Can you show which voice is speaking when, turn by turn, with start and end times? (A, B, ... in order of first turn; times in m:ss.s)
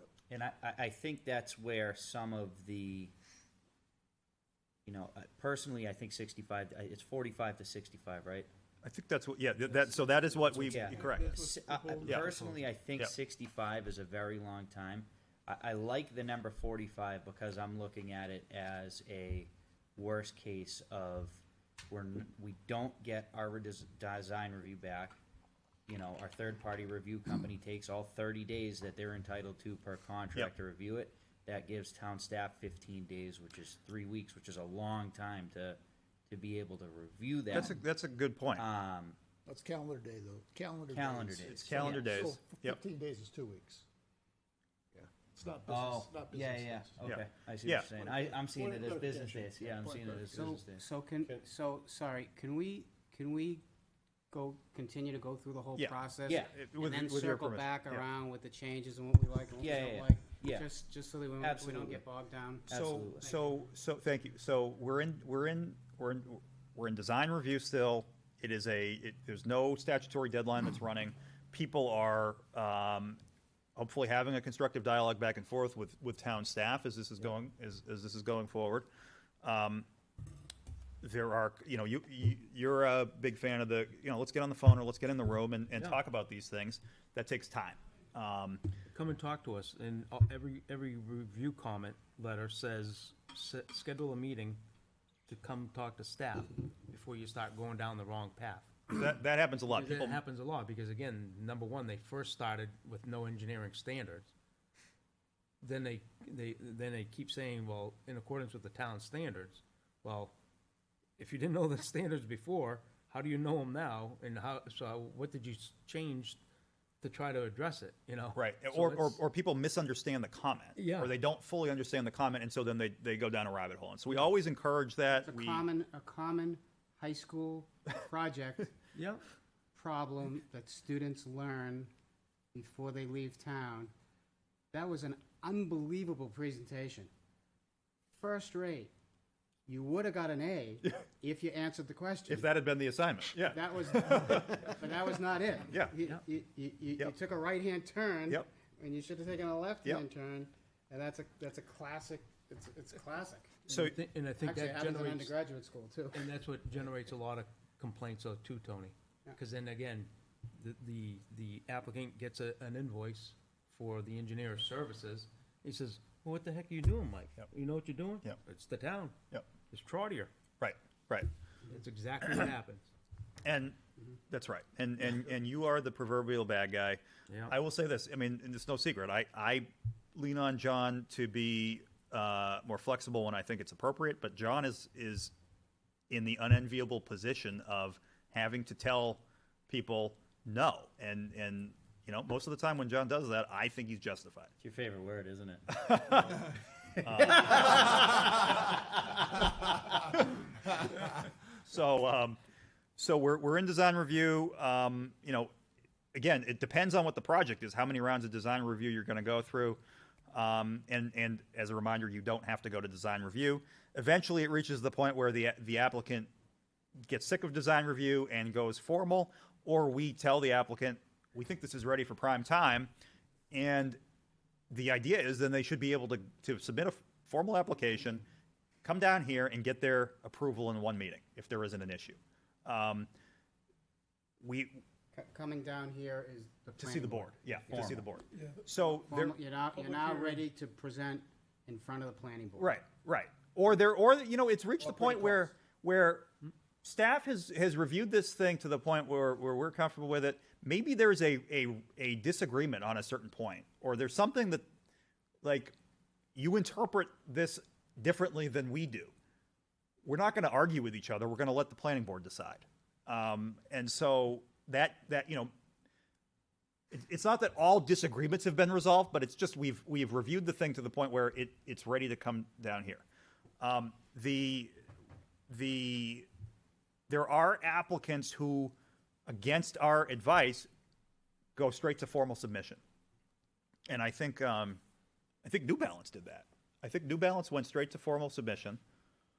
0:00.3-0:03.1 A
0:04.9-0:08.5 A
0:08.8-0:11.3 B
0:10.2-0:12.3 C
0:10.6-0:25.2 A
0:25.9-0:37.8 A
0:37.5-0:38.6 B
0:38.6-0:39.2 A
0:39.5-0:43.8 C
0:40.9-0:42.3 A
0:41.5-0:42.8 B
0:44.9-0:47.1 C
0:45.7-0:50.8 A
0:47.0-0:47.9 B
0:48.0-0:50.6 C
0:50.3-0:53.6 D
0:54.3-1:03.6 D
0:56.3-0:56.5 A
0:56.5-0:58.0 B
0:59.6-1:00.7 A
1:01.4-1:02.0 A
1:02.7-1:03.3 A
1:02.7-1:13.2 B
1:13.8-1:18.9 B
1:19.4-1:19.9 B
1:21.0-1:28.6 B
1:25.8-1:26.0 E
1:28.9-1:34.6 E
1:35.3-1:39.0 E
1:38.9-1:40.2 B
1:39.7-1:44.3 E
1:45.6-1:50.3 E
1:51.2-1:56.4 E
1:57.0-1:59.2 E
1:58.4-2:05.6 B
2:00.8-2:01.1 E
2:05.2-2:08.7 D
2:09.0-2:09.2 E
2:09.8-2:11.9 D
2:12.5-2:13.9 D
2:14.7-2:17.1 D
2:18.1-2:18.9 D
2:19.7-2:22.5 D
2:22.3-2:24.7 B
2:23.4-2:33.6 D
2:25.7-2:26.0 B
2:33.7-2:35.3 E
2:33.7-2:34.0 B
2:34.4-2:36.3 D
2:36.1-2:50.3 E
2:50.6-2:51.3 B
2:51.7-2:52.9 E
2:53.4-2:53.8 B
2:54.3-3:05.3 B
2:57.3-2:57.6 E
3:06.1-3:14.5 B
3:14.6-3:18.8 A
3:15.8-3:16.4 B
3:17.0-3:17.8 B
3:21.6-3:22.4 B
3:23.0-3:25.5 B
3:26.1-3:29.8 B
3:30.3-3:36.3 B
3:37.1-3:42.9 B
3:43.5-3:44.0 B
3:44.7-3:48.3 B
3:48.8-3:53.1 B
3:54.4-3:54.8 B
3:55.1-3:58.1 D
3:56.8-3:59.4 B
3:57.7-3:58.0 A
3:58.9-4:02.8 D
4:02.6-4:06.3 B
4:06.8-4:14.6 B
4:15.4-4:15.8 B
4:16.4-4:19.1 B
4:20.0-4:25.5 B
4:26.9-4:33.0 B
4:33.6-4:34.7 B
4:35.5-4:36.3 B
4:37.1-4:38.8 B
4:39.3-4:40.7 B
4:41.6-4:42.8 B
4:43.9-4:44.8 B
4:45.4-4:48.8 B